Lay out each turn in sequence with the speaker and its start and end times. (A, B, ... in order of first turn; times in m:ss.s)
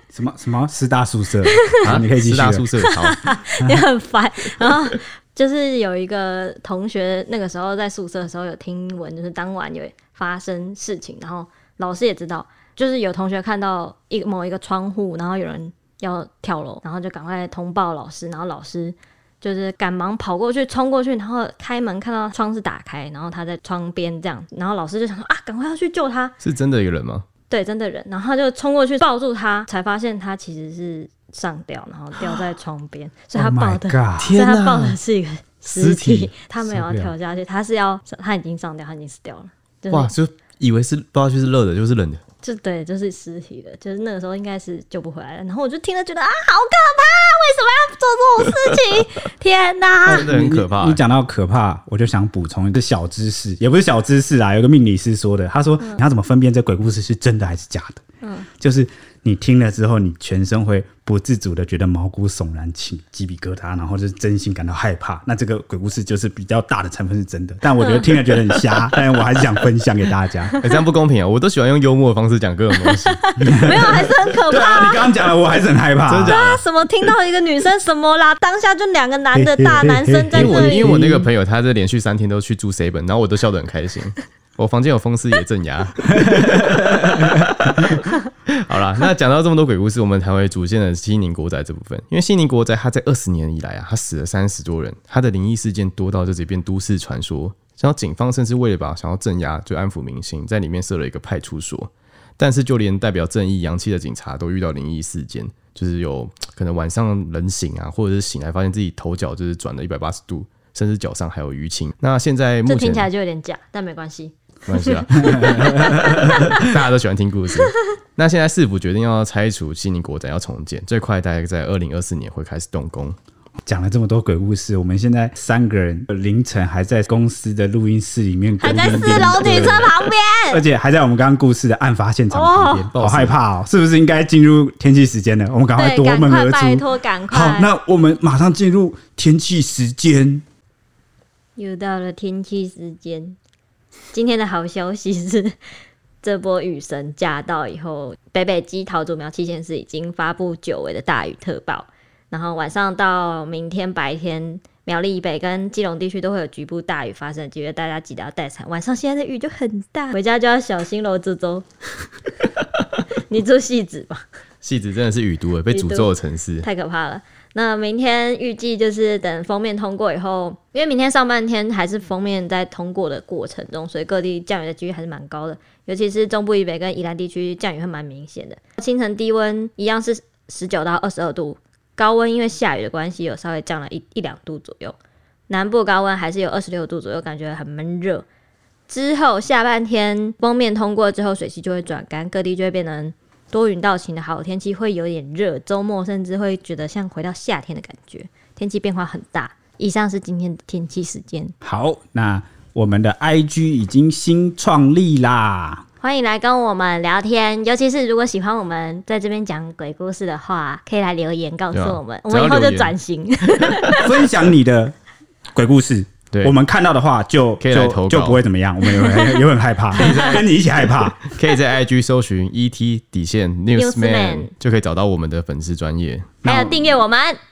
0:00.1-0:02.7 A
0:01.8-0:03.2 B
0:02.8-0:26.4 C
0:26.4-0:27.2 B
0:27.5-0:40.1 C
0:33.4-0:34.4 A
0:34.2-0:35.0 B
0:35.6-0:36.3 B
0:36.6-0:37.1 A
0:39.9-0:42.2 B
0:42.4-0:50.3 C
0:50.0-0:58.0 A
0:50.1-0:51.0 B
0:58.6-1:10.5 A
1:07.8-1:08.6 C
1:10.6-1:13.2 B
1:12.7-1:15.2 C
1:13.4-1:16.3 A
1:16.0-1:16.6 B
1:16.2-1:21.0 C
1:19.3-1:21.3 A
1:20.3-1:53.1 B
1:26.7-1:27.1 A
1:52.6-1:56.7 C
1:54.7-2:03.2 B
1:55.4-1:56.4 A
2:03.6-2:09.9 A
2:08.6-2:10.6 C
2:10.5-2:20.4 A
2:12.3-2:12.9 C
2:12.9-2:13.4 B
2:15.8-2:17.7 C
2:21.6-2:23.4 C
2:24.1-2:25.6 C
2:26.2-2:41.6 C
2:43.2-2:44.2 C
2:44.6-2:46.7 B
2:45.7-3:05.0 C
3:05.5-3:08.2 C
3:08.9-3:21.5 C
3:21.6-3:25.8 A
3:26.0-3:34.1 C
3:31.7-3:32.9 B
3:34.0-3:35.0 A
3:35.5-3:41.2 A
3:37.6-3:38.4 B
3:38.9-3:40.4 C
3:40.0-3:40.4 B
3:41.3-3:46.4 B
3:43.7-3:44.5 C
3:46.4-3:46.9 A
3:46.4-3:47.4 C